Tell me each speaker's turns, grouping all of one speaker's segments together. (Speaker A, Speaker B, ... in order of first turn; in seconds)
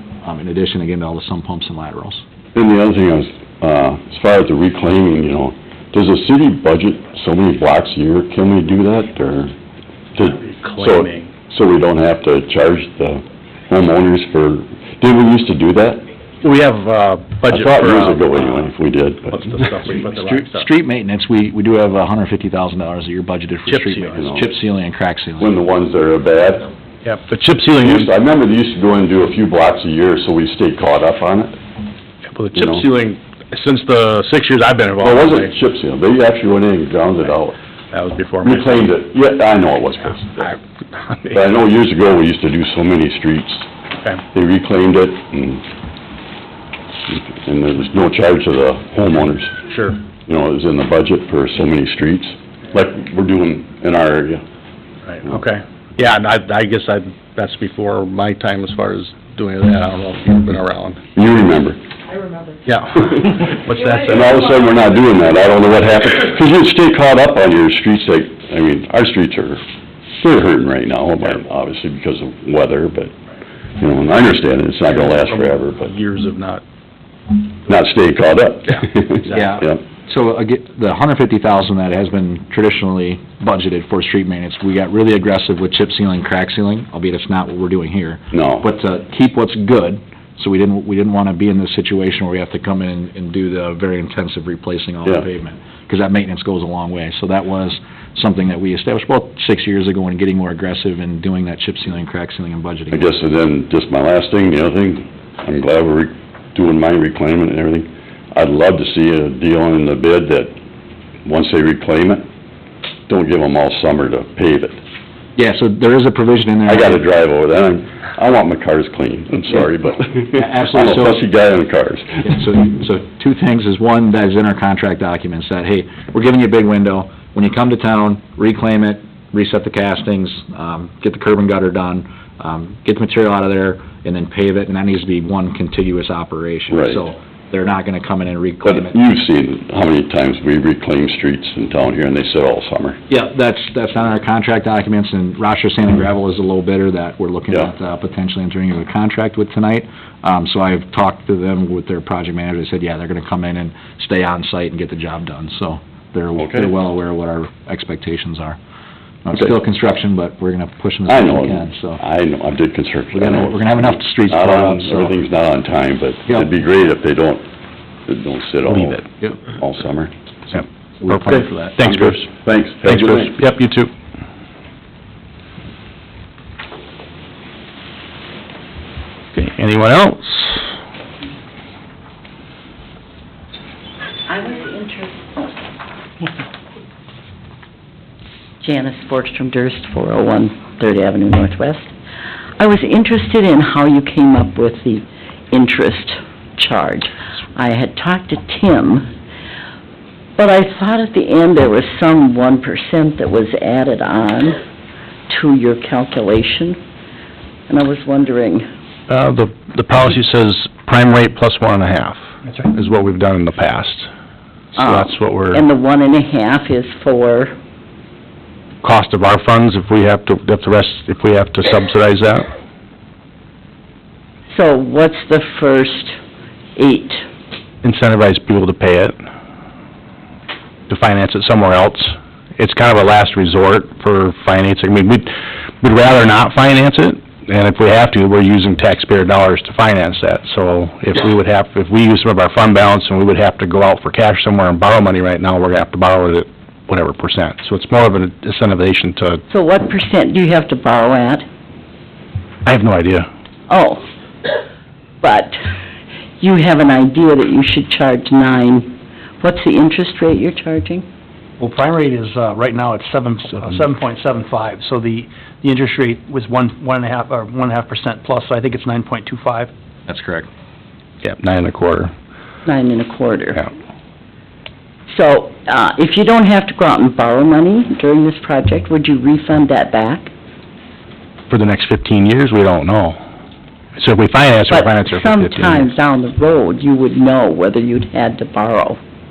Speaker A: 0.2-2.2, 19.9-25.6, 79.3-103.1, 115.4-117.0, 120.3-121.2, 122.2-139.0, 143.1-158.6, 159.2-162.0, 163.2-165.2, 171.0-171.8, 270.1-270.5
Speaker B: 2.5-9.5, 10.2-16.1, 17.5-19.4, 24.1-24.5, 25.4-26.7, 27.8-31.6, 32.5-32.9, 35.0-37.6, 38.4-40.5, 41.3-43.7, 44.3-45.6, 47.1-49.6, 50.3-54.4, 61.1-61.8, 63.0-63.4, 64.0-69.6, 70.2-73.1, 73.8-75.9, 77.7-79.8, 88.3-88.7, 102.9-110.6, 111.2-112.3, 113.1-114.8, 116.7-122.3, 136.7-137.0, 138.7-143.0, 156.4-156.8, 161.1-167.5, 168.1-169.0, 169.6-170.1, 171.8-173.4
Speaker C: 10.4-11.3, 16.4-18.6, 19.3-20.7, 23.7-24.1, 27.1-28.1, 32.3-35.5, 37.9-38.9, 41.1-41.4, 49.7-50.0, 55.0-61.0, 62.7-64.4, 75.3-76.6, 168.7-169.1, 170.6-172.3, 172.8-173.9, 179.3-180.7, 209.1-214.1, 214.7-215.6, 218.8-222.5, 227.8-229.2, 230.9-249.4, 252.7-253.3, 271.2-272.1, 281.5-283.2, 284.0-285.9
Speaker D: 184.3-185.4, 188.6-191.9, 192.6-199.1, 200.4-204.6, 205.3-206.8, 207.7-208.7, 214.8-217.5, 224.5-226.2, 226.8-227.2, 249.5-251.5, 253.7-254.1, 255.2-255.6, 256.4-261.1, 272.6-273.6, 275.1-280.3, 284.7-289.0
Speaker E: 261.6-269.7